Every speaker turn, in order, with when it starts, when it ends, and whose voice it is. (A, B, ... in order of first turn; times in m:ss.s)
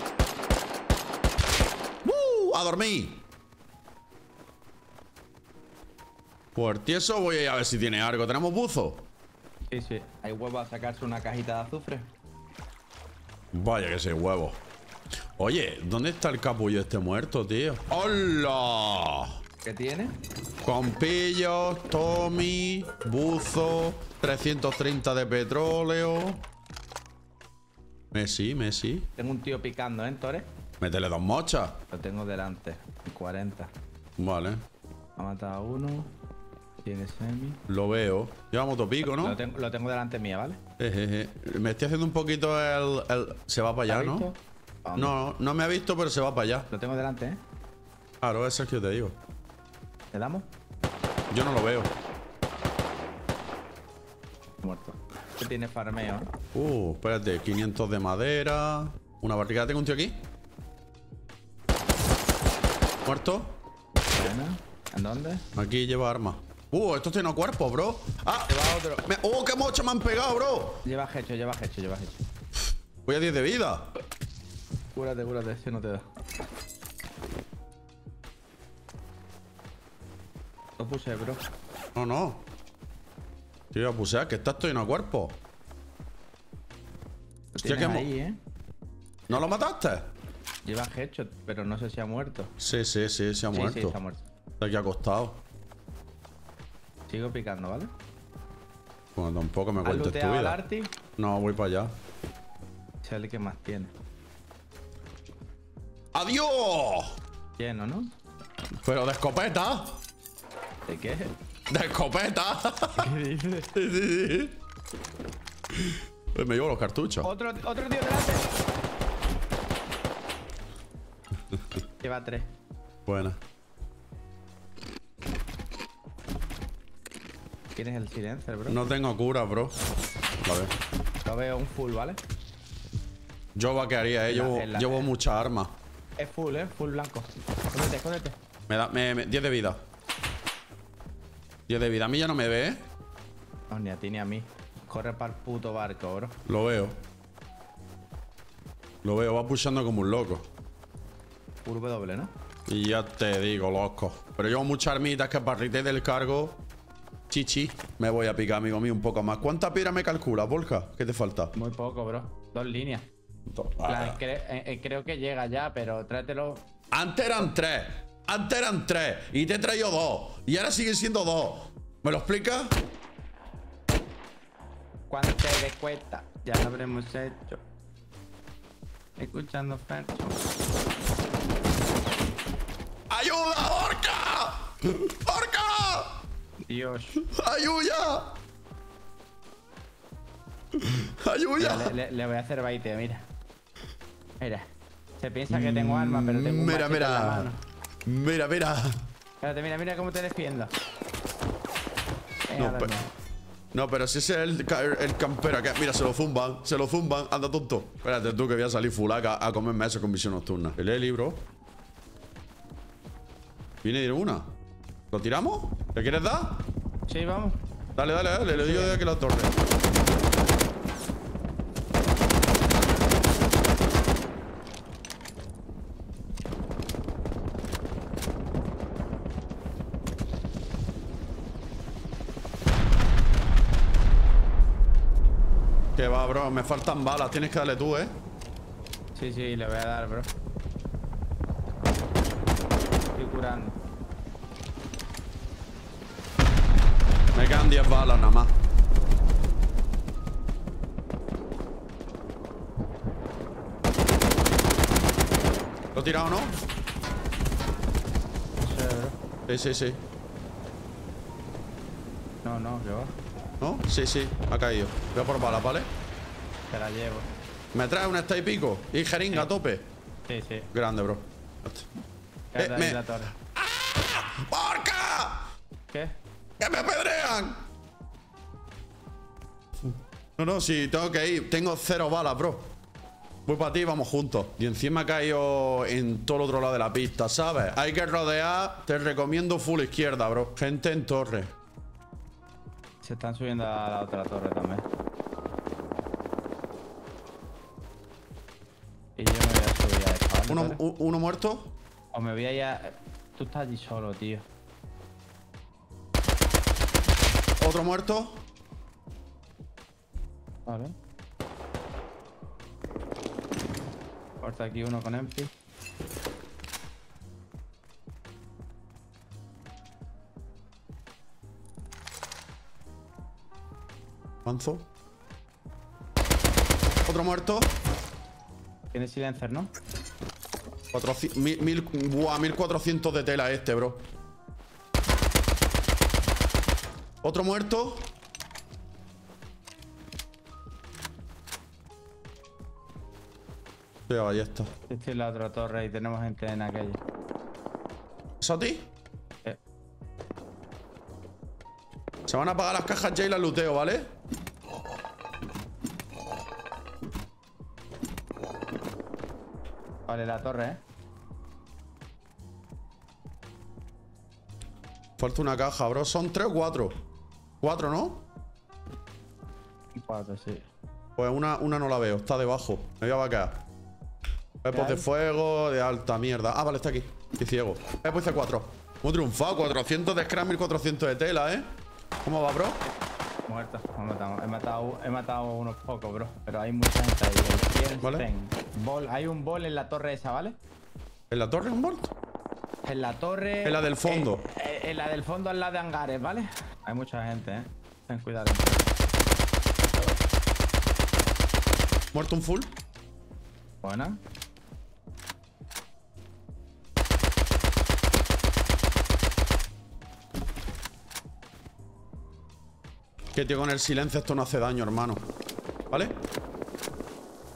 0:02.0-0:03.2 A
0:06.6-0:09.1 A
0:09.7-0:12.1 B
0:13.5-0:14.6 A
0:15.4-0:19.4 A
0:19.6-0:20.2 B
0:20.6-0:26.5 A
0:28.1-0:29.1 A
0:29.2-0:30.5 B
0:30.8-0:31.8 A
0:31.9-0:33.7 B
0:34.2-0:34.6 A
0:35.2-0:36.1 B
0:36.8-0:37.6 B
0:37.7-0:39.4 A
0:39.0-0:40.6 B
0:40.8-0:44.3 A
0:43.9-0:45.2 B
0:45.0-0:46.7 A
0:46.7-0:47.4 B
0:48.2-0:49.2 A
0:50.1-0:50.5 B
0:51.3-0:51.9 A
0:54.6-0:56.3 B
0:56.5-1:00.2 A
1:03.0-1:03.6 A
1:04.1-1:05.5 B
1:05.6-1:10.8 A
1:08.5-1:09.0 B
1:10.8-1:12.2 B
1:12.6-1:13.9 A
1:15.0-1:16.0 B
1:20.8-1:21.4 B
1:22.0-1:22.5 A
1:23.7-1:25.4 A
1:27.5-1:28.4 B
1:27.6-1:28.1 A
1:29.3-1:30.1 A
1:30.7-1:32.5 B
1:32.6-1:34.0 A
1:33.5-1:34.2 B
1:34.6-1:35.4 A
1:37.1-1:37.9 B
1:39.2-1:40.6 A
1:39.8-1:40.9 B
1:41.2-1:42.0 A
1:43.0-1:43.9 B
1:46.1-1:47.2 A
1:47.6-1:48.1 B
1:48.8-1:50.0 A
1:50.9-1:51.3 B
1:51.7-1:53.1 A
1:53.0-1:53.7 B
1:53.7-1:54.6 A
1:55.7-1:57.3 A
1:57.2-1:58.5 B
2:01.5-2:01.8 A
2:02.0-2:02.5 B
2:03.1-2:03.4 A
2:07.8-2:08.8 B
2:08.7-2:09.8 A
2:10.4-2:10.7 A
2:11.2-2:12.2 B
2:13.6-2:15.8 A
2:14.3-2:15.1 B
2:16.2-2:18.4 B
2:18.7-2:19.8 A
2:21.7-2:22.9 A
2:23.7-2:26.4 B
2:26.5-2:27.0 A
2:29.0-2:30.5 A
2:31.6-2:32.3 B
2:32.7-2:36.6 A
2:37.3-2:41.5 A
2:41.6-2:43.1 B
2:43.5-2:44.2 A
2:43.9-2:46.7 B
2:46.9-2:52.8 A
2:55.1-2:57.6 B
2:59.2-3:00.4 B
3:03.1-3:06.2 A
3:06.7-3:07.2 B
3:07.2-3:08.4 A
3:10.7-3:11.9 A
3:11.6-3:13.3 B
3:14.4-3:14.7 B
3:15.2-3:17.6 B
3:15.5-3:17.5 A
3:18.0-3:19.1 A
3:19.4-3:20.7 B
3:22.5-3:23.1 B
3:22.6-3:22.9 A
3:23.7-3:31.4 A
3:33.8-3:34.6 A
3:35.1-3:36.7 A
3:37.1-3:37.6 B
3:38.0-3:39.5 A
3:38.5-3:39.0 B
3:56.0-3:58.2 A
3:59.2-4:00.3 B
4:03.2-4:03.8 B
4:07.3-4:08.5 A
4:15.9-4:16.6 A
4:18.6-4:19.2 B
4:19.5-4:20.0 A
4:22.4-4:23.2 B
4:23.6-4:25.9 A
4:26.7-4:27.3 B
4:27.7-4:29.9 A
4:30.3-4:30.7 B
4:30.7-4:31.9 A
4:32.5-4:33.3 B
4:32.6-4:35.5 A
4:35.9-4:36.2 B
4:36.6-4:37.7 A
4:39.8-4:42.8 A
4:43.5-4:51.5 A
4:53.0-4:54.8 B
4:59.2-5:00.8 B
5:00.5-5:01.8 A
5:02.1-5:04.5 B
5:07.6-5:08.4 A
5:10.7-5:10.9 B
5:14.4-5:15.5 B
5:24.4-5:24.9 A
5:27.1-5:27.8 A
5:28.9-5:29.7 B
5:30.9-5:34.1 A
5:37.2-5:38.1 A
5:44.1-5:44.7 A
5:44.9-5:47.0 B
5:48.4-5:48.9 A
5:52.3-5:54.1 A
6:00.1-6:00.8 B
6:05.2-6:07.0 A
6:07.6-6:08.2 A
6:10.0-6:10.7 B
6:11.2-6:13.6 A
6:14.6-6:21.7 A
6:14.7-6:15.1 B
6:22.2-6:22.8 A
6:23.5-6:30.6 B
6:28.0-6:28.3 A
6:31.3-6:32.1 A
6:32.8-6:38.9 B
6:33.6-6:34.4 A
6:42.1-6:42.8 A
6:43.8-6:44.2 B
6:53.3-6:55.3 A
6:55.9-6:56.2 A